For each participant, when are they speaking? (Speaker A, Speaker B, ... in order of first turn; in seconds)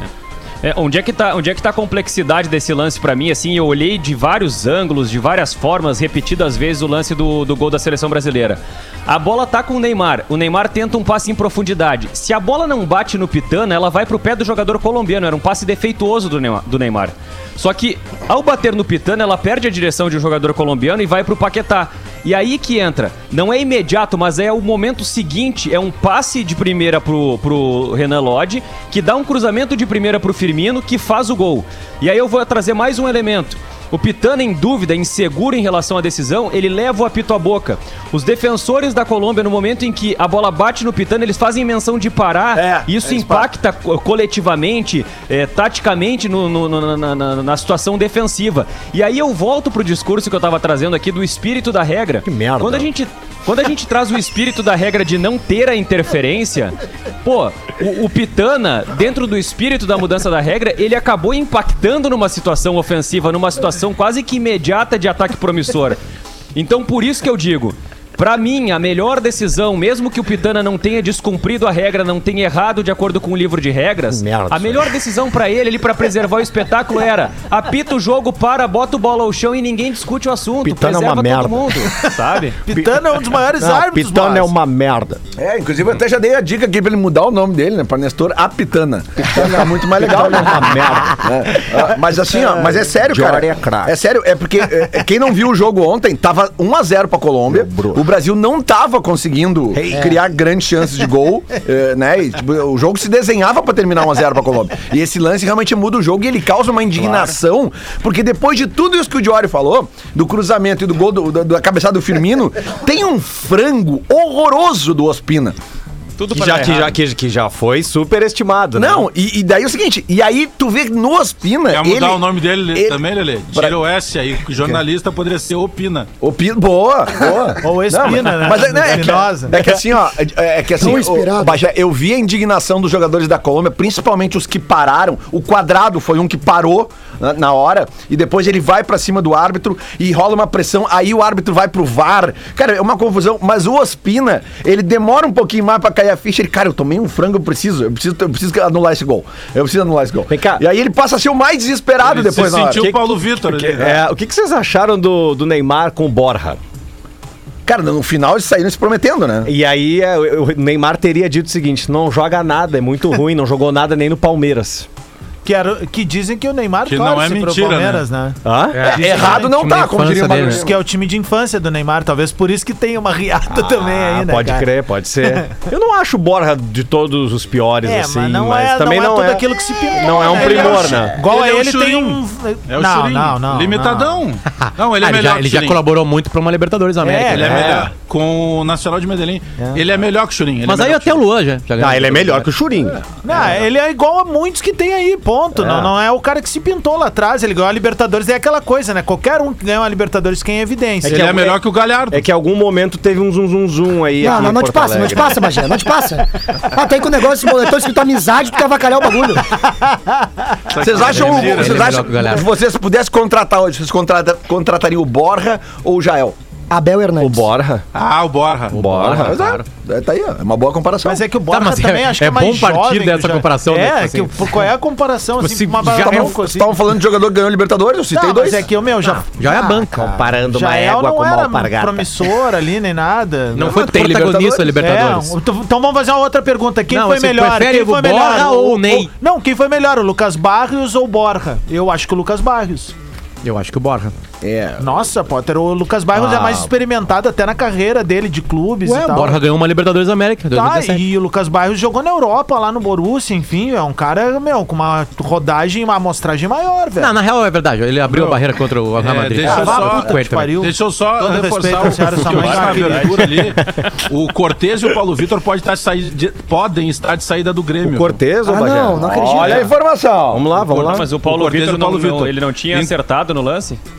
Speaker A: 0.6-66.0, 66.5-82.6, 116.2-116.9, 262.3-263.1, 270.9-273.8
Speaker B: 42.5-43.5, 85.4-115.6, 118.8-123.0, 126.2-152.9, 157.7-159.5, 168.8-170.8, 210.8-216.3, 219.1-221.2, 225.9-228.7, 233.6-234.7, 244.4-244.8, 268.9-270.4
Speaker C: 52.2-52.9, 74.1-74.8, 80.6-81.8, 83.6-85.2, 89.2-91.2, 93.0-93.9, 97.5-98.0, 99.7-100.1, 116.3-119.0, 150.3-150.6, 152.6-156.6, 159.4-164.9, 168.4-168.8, 173.6-181.2, 187.6-187.8, 191.8-193.0, 195.6-195.9, 201.0-201.6, 202.1-205.4, 217.2-217.8, 218.7-219.5, 230.0-232.1, 267.8-269.7, 270.3-271.1
Speaker D: 82.6-84.5, 127.6-129.6, 165.4-169.8, 170.4-174.7, 177.8-184.2, 187.0-187.8, 193.2-201.2, 209.9-210.2, 221.0-226.8, 228.1-233.9, 234.6-242.9, 244.8-249.4, 250.5-257.1, 259.4-263.5
Speaker E: 121.7-126.1, 152.0-154.0, 166.8-168.1, 180.3-185.8, 187.2-191.2, 201.0-202.2, 210.7-212.1, 217.9-218.8, 258.1-258.4, 259.0-268.2, 270.6-272.9
Speaker F: 130.8-131.6, 204.2-209.5, 216.7-217.5, 268.4-269.6
Speaker G: 168.7-170.6, 184.6-187.7, 190.6-192.5, 211.0-212.5, 218.7-219.6, 221.5-224.6, 225.4-226.3, 229.3-230.1, 233.5-235.3, 236.9-239.1, 243.4-244.1, 246.1-246.7, 248.8-251.0, 257.0-260.6